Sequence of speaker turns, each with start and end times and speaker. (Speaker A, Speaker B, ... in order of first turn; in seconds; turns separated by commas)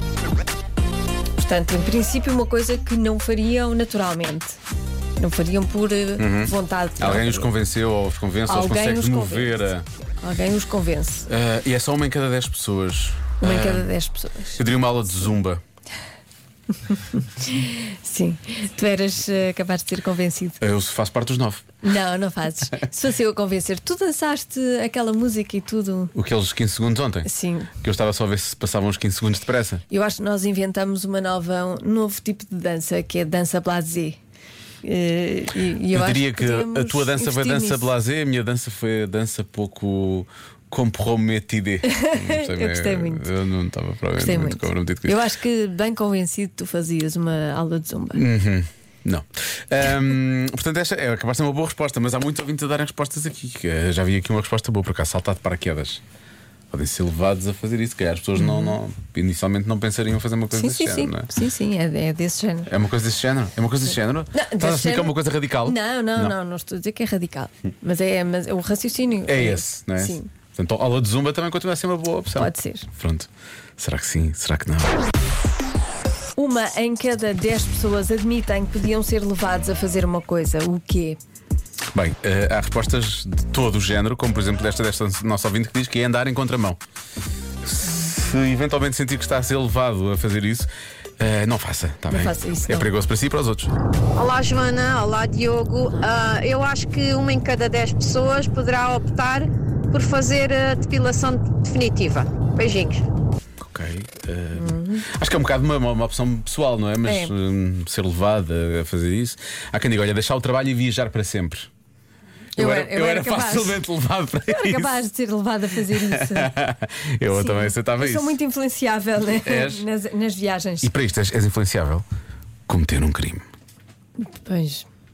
Speaker A: 1.4-4.6, Speaker A: 5.2-7.5, Speaker B: 6.2-9.9, Speaker A: 8.5-9.7, Speaker A: 10.2-11.3, Speaker B: 11.3-13.9, Speaker A: 13.4-14.6, Speaker B: 14.6-15.6, Speaker A: 17.5-20.6, Speaker B: 20.6-21.6, Speaker A: 21.8-26.1, Speaker B: 26.1-27.3, Speaker A: 27.2-27.7, Speaker B: 27.8-29.8, Speaker A: 29.9-34.2, Speaker A: 34.8-37.9, Speaker B: 35.9-45.2, Speaker A: 41.9-43.3, Speaker A: 44.2-48.2, Speaker B: 48.1-56.0, Speaker B: 56.7-61.3, Speaker A: 58.4-58.8, Speaker A: 60.5-62.7, Speaker B: 62.7-66.4, Speaker A: 64.3-70.3, Speaker B: 69.3-75.0, Speaker A: 72.4-72.9, Speaker A: 76.4-81.2, Speaker B: 81.9-86.8, Speaker B: 87.6-93.7, Speaker A: 92.1-92.9, Speaker C: 94.2-103.0, Speaker B: 103.6-111.7, Speaker A: 104.6-105.0, Speaker A: 107.0-107.3, Speaker A: 112.6-113.8, Speaker B: 112.6-115.0, Speaker A: 114.5-116.5, Speaker B: 115.9-118.4, Speaker A: 117.3-120.9, Speaker B: 119.4-119.8, Speaker B: 120.8-122.0, Speaker B: 122.7-123.5, Speaker A: 124.2-124.9